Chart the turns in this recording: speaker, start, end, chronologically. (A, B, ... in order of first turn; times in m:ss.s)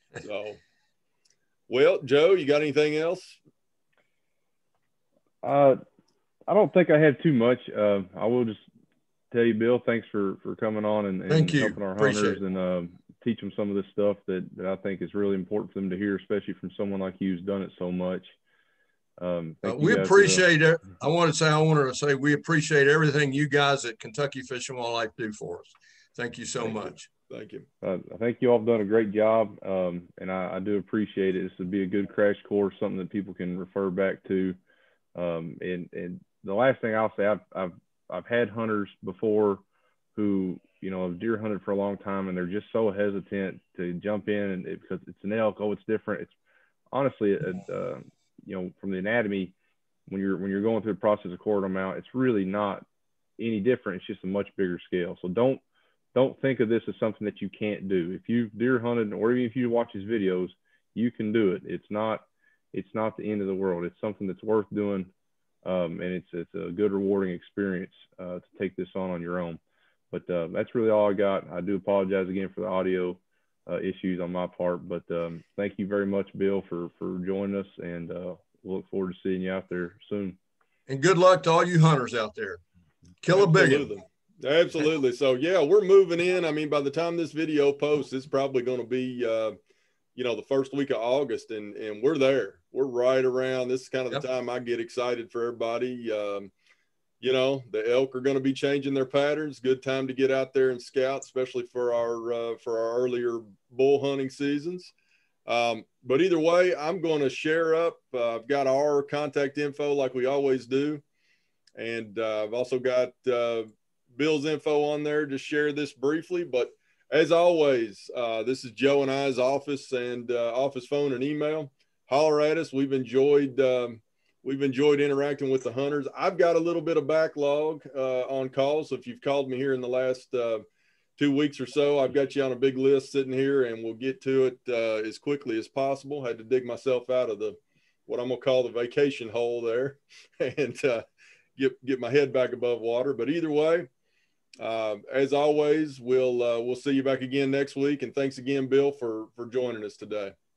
0:00.2-0:00.6 A
0:01.7-0:03.4 A
0:05.4-0:05.8 B
0:06.5-0:08.6 B
0:09.3-0:18.3 B
0:11.3-0:12.4 C
0:19.2-0:20.4 B
0:19.6-0:27.1 C
0:26.7-0:27.6 A
0:27.8-0:34.6 B
0:35.1-0:39.6 B
0:40.2-0:46.3 B
0:46.9-0:49.5 B
0:50.1-0:52.8 B
0:53.4-0:55.6 B
0:56.1-1:05.1 B
1:05.6-1:09.6 B
1:10.1-1:20.4 B
1:20.9-1:22.6 C
1:23.2-1:23.9 C
1:23.3-1:29.5 A
1:30.1-1:36.5 A
1:37.2-1:44.9 A
1:45.4-1:51.0 A
1:51.8-2:10.6 A
2:11.2-2:21.0 A
2:21.6-2:23.9 A
2:24.6-2:30.3 A